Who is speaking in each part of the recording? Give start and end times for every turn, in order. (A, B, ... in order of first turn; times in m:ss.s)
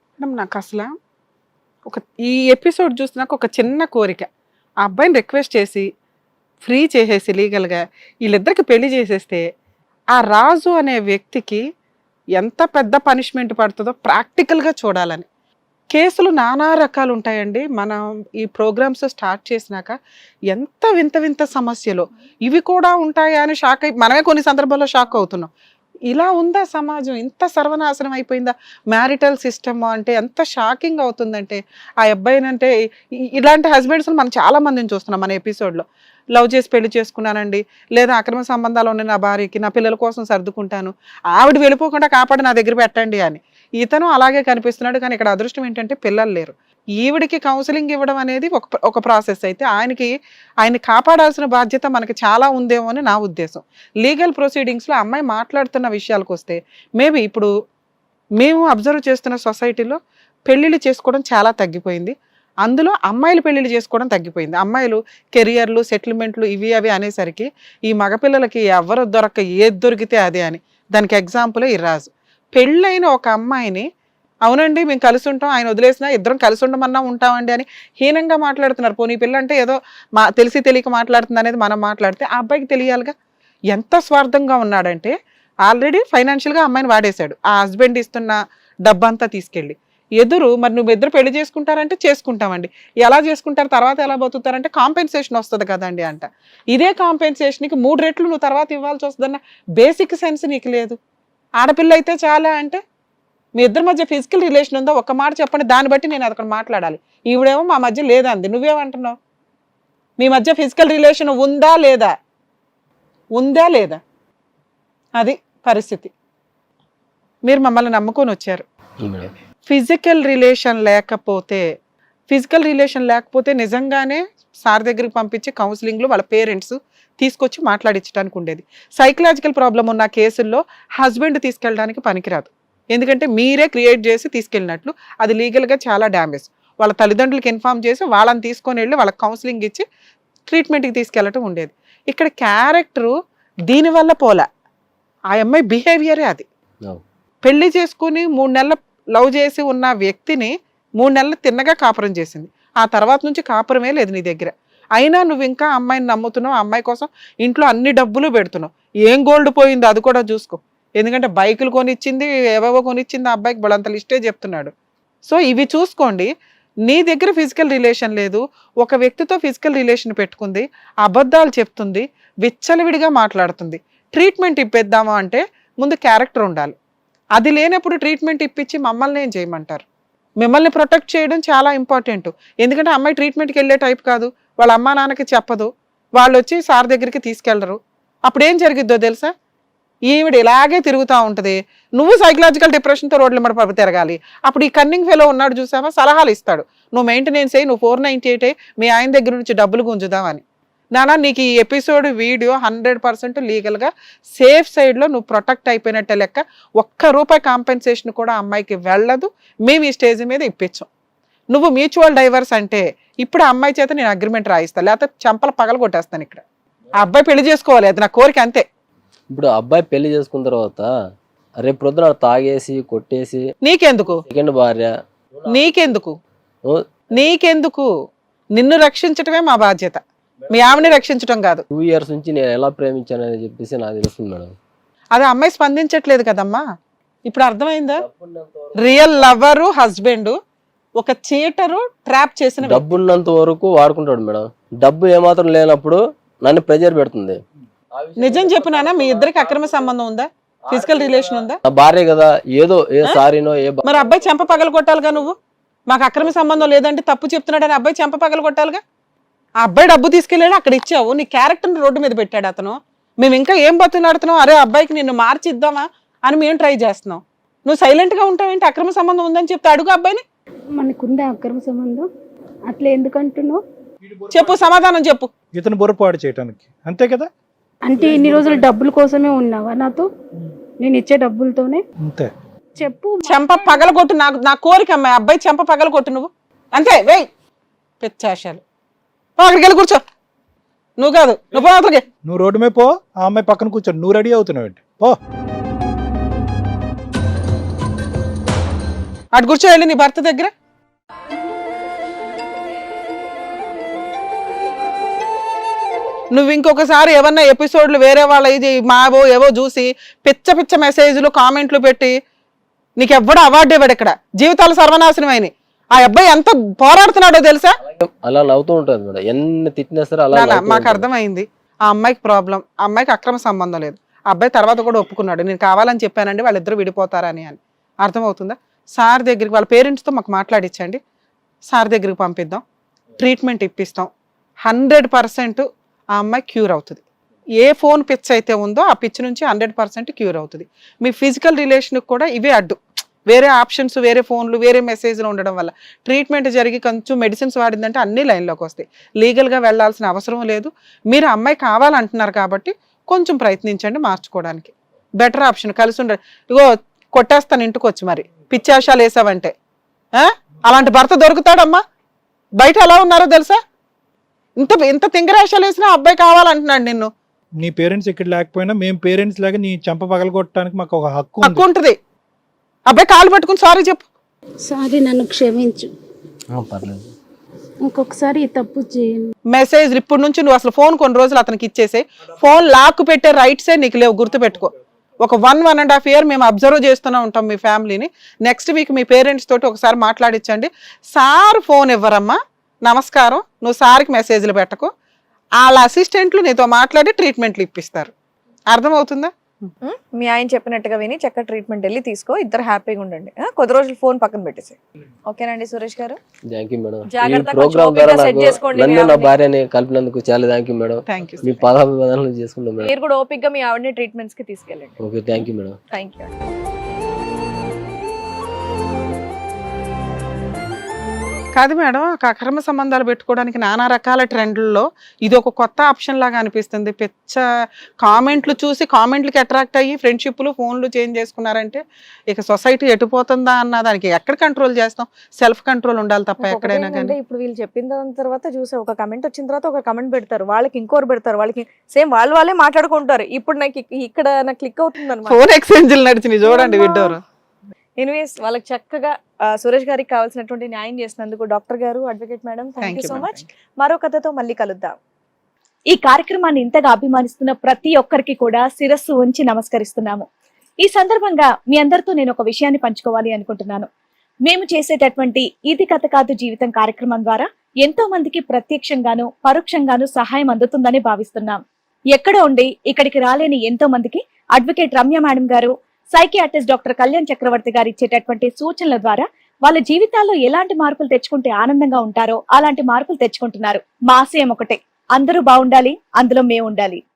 0:00.2-0:00.9 A
0:01.9-0:04.3 A
0:04.8-0:05.9 A
0:06.6-0:09.4 A
0:10.2-0:11.6 A
0:12.4-0:15.3 A
0:15.9-0:20.0 A
0:20.5-0:25.5 A
0:26.1-0:32.7 A
0:33.3-0:57.5 A
0:58.4-1:13.9 A
1:14.4-1:23.1 A
1:23.7-1:25.1 A
1:25.7-1:41.0 A
1:41.6-1:42.8 A
1:43.6-1:49.2 A
1:50.2-1:52.1 A
1:53.4-1:54.0 A
1:55.2-1:56.1 A
1:57.5-1:58.6 A
1:59.0-1:59.3 B
1:59.7-2:01.7 A
2:02.3-2:19.9 A
2:20.5-2:23.2 A
2:23.7-2:24.5 A
2:25.3-2:26.5 A
2:27.4-2:44.7 A
2:45.3-2:46.3 A
2:46.9-2:56.8 A
2:57.4-2:59.8 A
3:00.4-3:09.3 A
3:10.1-3:20.4 A
3:20.9-3:30.9 A
3:31.5-3:36.4 A
3:37.0-3:38.6 A
3:39.3-3:40.9 B
3:41.6-3:43.4 B
3:43.6-3:44.2 A
3:44.3-3:44.9 B
3:45.5-3:46.2 A
3:47.1-3:47.9 A
3:48.6-3:51.6 A
3:51.7-3:54.5 B
3:55.1-3:56.6 A
3:57.2-3:58.0 A
3:58.0-3:59.4 B
3:58.8-4:00.4 A
4:01.0-4:02.9 A
4:02.6-4:07.4 B
4:08.0-4:09.9 B
4:08.2-4:11.6 A
4:10.7-4:14.4 B
4:13.8-4:15.4 A
4:15.9-4:18.8 A
4:16.2-4:16.6 B
4:19.6-4:30.2 A
4:30.8-4:32.1 C
4:32.7-4:33.6 C
4:34.1-4:34.7 D
4:34.3-4:35.3 A
4:35.5-4:37.3 D
4:37.9-4:40.1 C
4:40.8-4:41.8 C
4:42.0-4:42.3 D
4:42.8-4:43.9 C
4:43.2-4:47.3 A
4:48.0-4:48.6 A
4:49.4-4:50.0 A
4:51.0-4:52.0 A
4:52.2-4:55.2 D
4:59.3-5:00.5 A
5:06.3-5:12.2 A
5:13.0-5:17.8 A
5:17.9-5:21.1 B
5:20.3-5:31.0 A
5:31.7-5:32.6 A
5:33.2-5:34.1 A
5:34.7-5:37.0 A
5:37.6-5:59.5 A
6:00.2-6:01.8 A
6:02.6-6:03.6 A
6:04.6-6:07.1 A
6:07.6-6:11.6 D
6:11.4-6:12.0 A
6:12.9-6:14.1 A
6:14.7-6:15.9 C
6:16.5-6:17.1 B
6:17.8-6:19.3 C
6:19.5-6:34.9 A
6:35.6-6:38.1 A
6:38.7-6:39.3 A
6:39.8-6:46.2 E
6:46.5-6:52.9 B
6:47.1-6:49.3 E
6:51.1-6:51.6 A
6:52.8-6:55.0 E
6:55.0-6:55.8 B
6:55.9-6:56.3 E
7:01.6-7:07.4 A
7:08.0-7:17.2 A
7:16.4-7:25.4 E
7:25.3-7:27.2 A
7:26.4-7:27.2 E
7:28.0-7:35.0 E
7:32.8-7:33.5 A
7:35.9-7:40.3 F
7:40.8-7:43.9 F
7:44.5-7:51.6 F
7:52.1-8:07.0 F